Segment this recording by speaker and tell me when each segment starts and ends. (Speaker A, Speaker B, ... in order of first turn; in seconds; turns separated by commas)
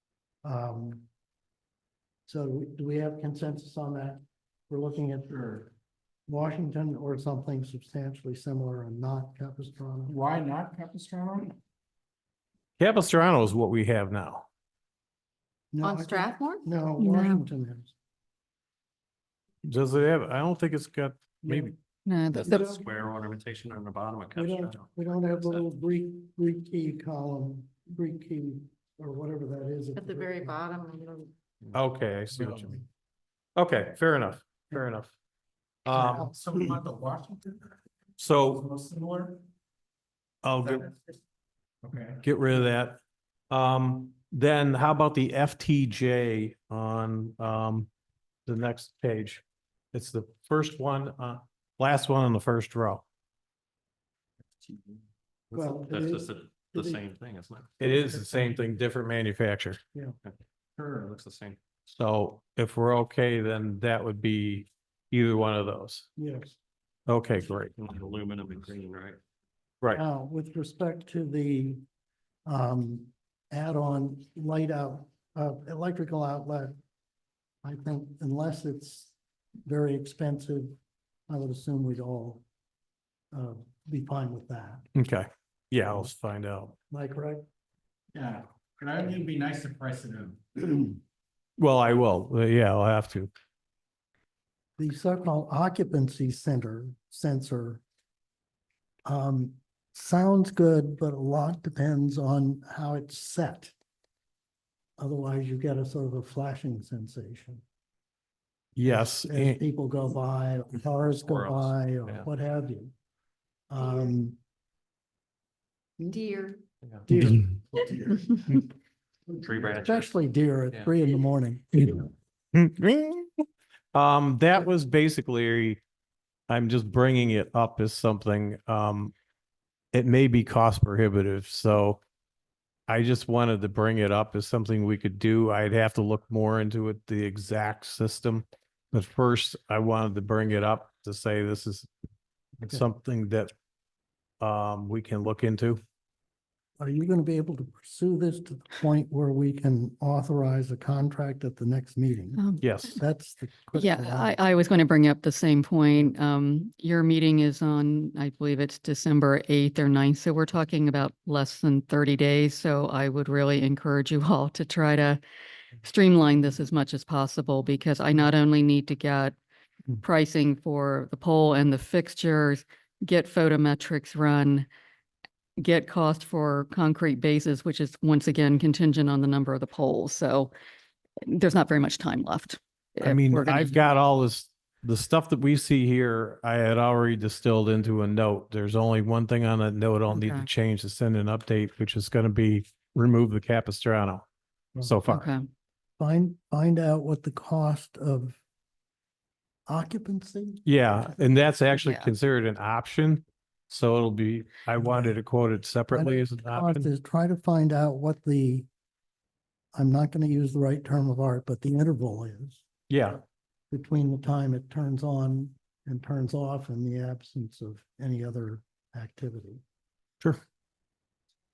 Speaker A: 0.4-1.1, Speaker A: 2.3-5.7, Speaker A: 6.3-10.2, Speaker B: 10.1-11.6, Speaker C: 12.8-14.4, Speaker A: 15.7-17.9, Speaker D: 15.8-16.6, Speaker E: 17.0-17.4, Speaker C: 19.6-21.7, Speaker A: 21.4-21.7, Speaker E: 22.1-22.8, Speaker F: 22.3-25.6, Speaker A: 22.4-22.8, Speaker A: 24.4-30.6, Speaker D: 29.9-31.3, Speaker C: 31.7-32.8, Speaker C: 33.5-35.1, Speaker C: 35.8-36.3, Speaker B: 35.9-37.8, Speaker C: 38.2-38.6, Speaker B: 38.4-39.4, Speaker C: 40.4-40.9, Speaker B: 40.8-41.1, Speaker B: 41.8-42.2, Speaker C: 42.2-47.9, Speaker C: 48.5-53.0, Speaker F: 55.5-57.8, Speaker A: 55.5-57.0, Speaker C: 57.8-59.8, Speaker F: 60.2-61.6, Speaker C: 61.9-66.1, Speaker A: 66.2-66.6, Speaker C: 67.1-67.7, Speaker F: 67.8-69.2, Speaker A: 69.9-71.8, Speaker A: 72.5-76.8, Speaker A: 77.6-79.1, Speaker A: 79.7-80.8, Speaker A: 81.3-82.4, Speaker A: 83.3-84.8, Speaker C: 84.9-86.7, Speaker A: 86.9-87.4, Speaker B: 88.1-91.0, Speaker C: 91.6-93.3, Speaker A: 94.8-97.8, Speaker A: 99.0-103.7, Speaker A: 105.0-107.6, Speaker C: 108.8-109.6, Speaker A: 108.8-112.9, Speaker F: 111.2-112.3, Speaker A: 113.7-114.4, Speaker D: 116.0-116.6, Speaker A: 117.1-118.6, Speaker A: 119.3-122.0, Speaker F: 119.4-120.1, Speaker C: 122.5-125.8, Speaker C: 126.5-129.1, Speaker C: 129.9-132.0, Speaker C: 132.9-141.9, Speaker C: 142.6-143.5, Speaker C: 144.4-145.8, Speaker A: 146.8-154.3, Speaker E: 152.4-152.6, Speaker C: 152.6-153.0, Speaker E: 153.7-165.2, Speaker E: 165.8-169.3, Speaker E: 170.0-174.7, Speaker E: 175.6-180.5, Speaker E: 181.2-183.7, Speaker C: 183.0-194.2, Speaker E: 190.1-190.4, Speaker C: 194.8-195.3, Speaker E: 195.1-195.5, Speaker A: 196.0-198.4, Speaker A: 199.7-200.7, Speaker C: 200.6-206.9, Speaker E: 201.7-202.1, Speaker A: 204.8-205.1, Speaker A: 205.9-208.7, Speaker A: 209.7-212.6, Speaker C: 212.9-213.2, Speaker A: 213.7-219.6